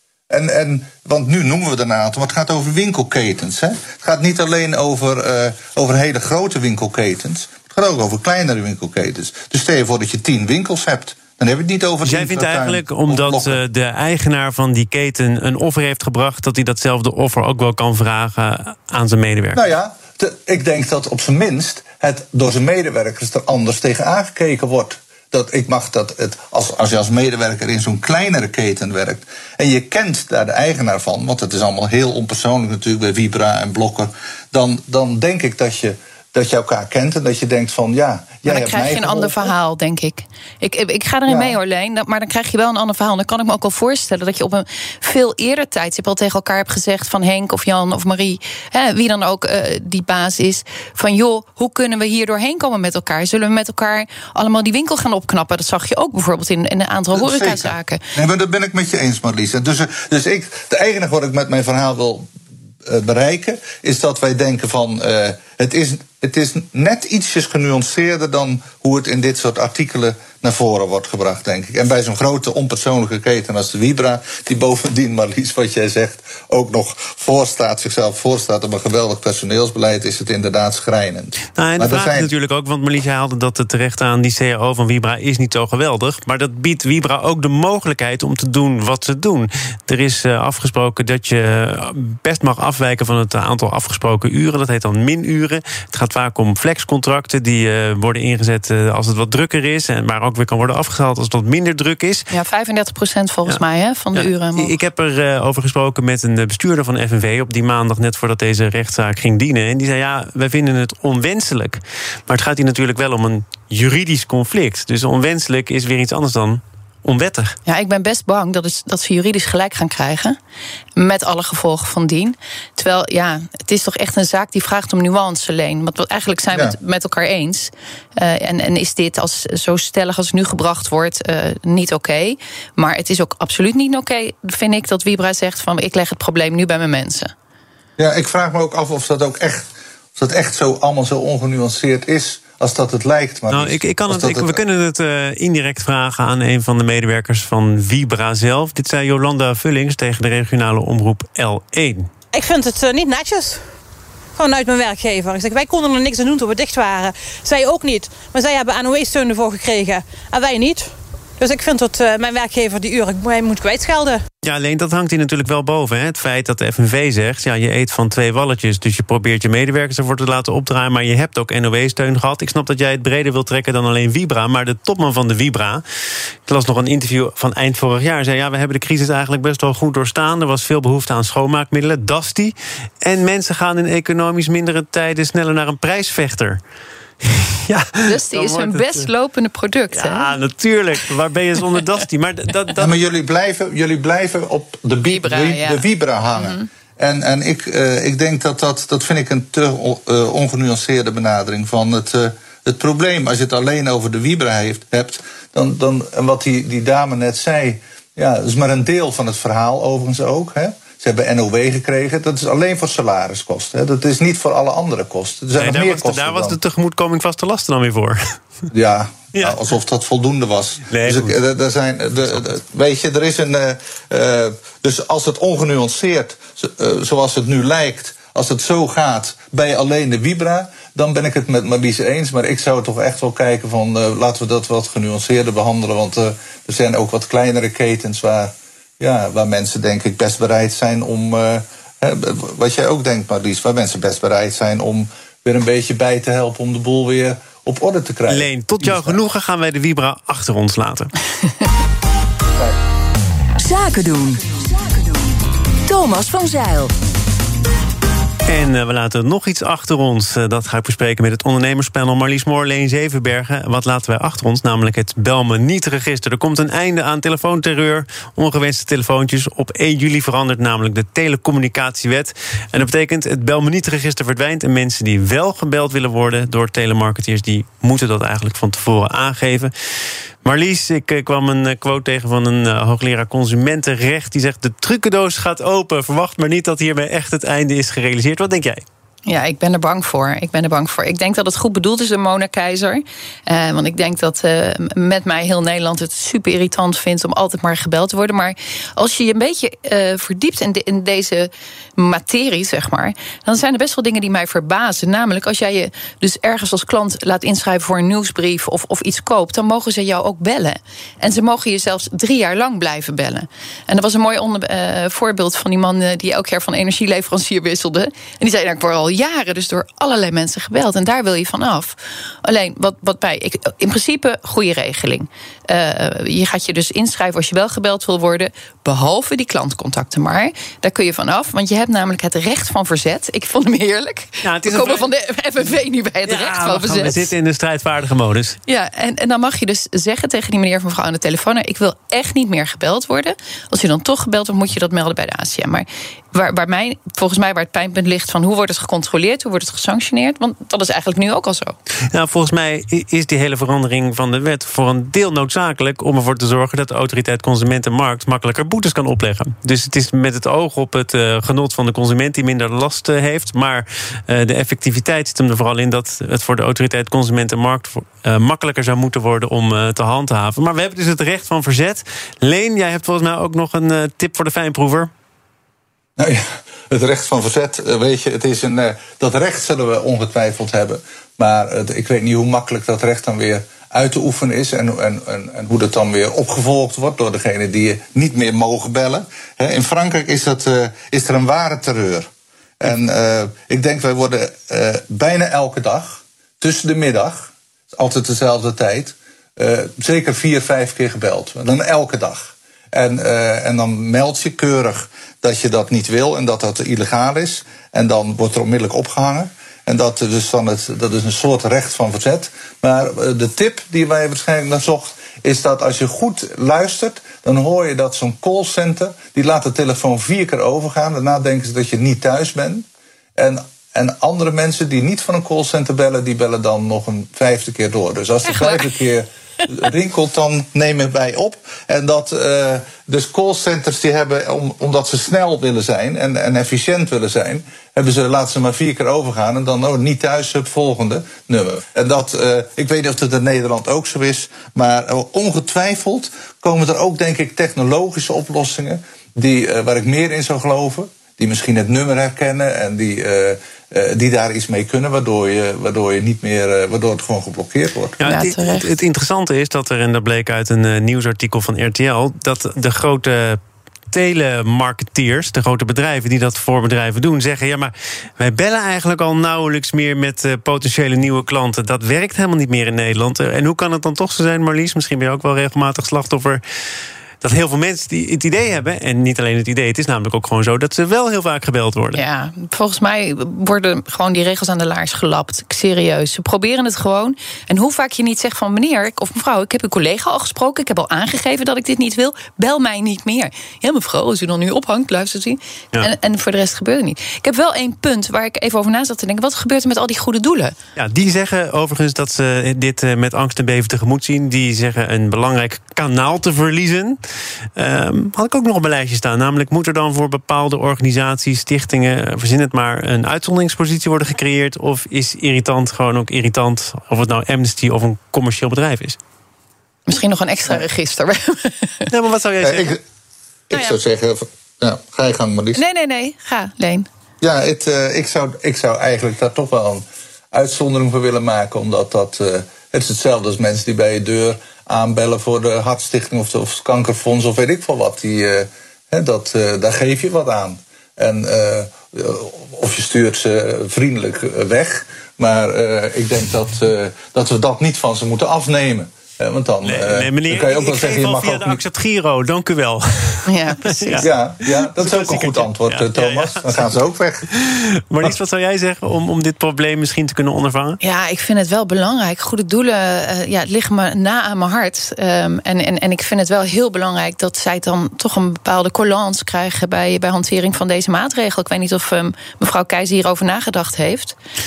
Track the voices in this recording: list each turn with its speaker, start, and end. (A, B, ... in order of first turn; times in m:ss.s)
0:00.3-0:13.6 A
0:12.0-0:19.6 B
0:19.5-0:39.5 A
0:38.4-0:58.0 C
0:41.3-0:41.6 A
0:57.1-1:02.3 A
1:02.8-1:22.3 A
1:21.6-1:42.3 B
1:42.3-1:44.8 C
1:44.1-1:57.6 B
1:57.7-2:00.4 C
2:01.0-2:17.3 C
2:18.0-2:24.6 A
2:23.5-2:32.1 B
2:32.3-2:33.7 D
2:34.4-2:44.2 D
2:44.4-2:55.8 B
2:56.5-3:06.6 B
3:07.2-3:09.1 B
3:08.0-3:10.3 C
3:09.9-3:12.9 B
3:12.8-3:36.6 A
3:15.1-3:16.7 C
3:35.6-3:38.2 B
3:38.7-4:09.2 A
3:40.9-3:41.4 B
4:08.3-4:11.1 B
4:13.6-4:15.2 E
4:15.9-4:16.9 E
4:18.5-4:39.7 B
4:40.4-4:48.8 B
4:49.3-5:37.2 C
5:34.4-5:35.1 B
5:36.2-5:38.6 B
5:38.7-5:51.8 C
5:52.1-6:15.1 B
6:16.2-6:32.3 A
6:32.8-7:02.8 A
7:03.4-7:38.2 A
7:08.4-7:08.9 C
7:38.2-7:43.6 B
7:38.2-7:38.9 C
7:44.1-7:56.6 B
7:57.4-8:02.2 B
8:02.1-8:20.8 C
8:21.0-8:27.2 B
8:27.8-8:39.2 B
8:40.1-8:42.1 C
8:42.1-8:43.0 B
8:42.6-8:43.0 A
8:43.7-8:45.8 A
8:43.7-8:44.0 C
8:45.7-8:47.1 C
8:47.4-9:11.8 A
9:09.8-9:17.0 B
9:13.5-9:14.3 C
9:14.2-9:17.5 A
9:17.5-9:21.0 B
9:21.0-9:34.4 C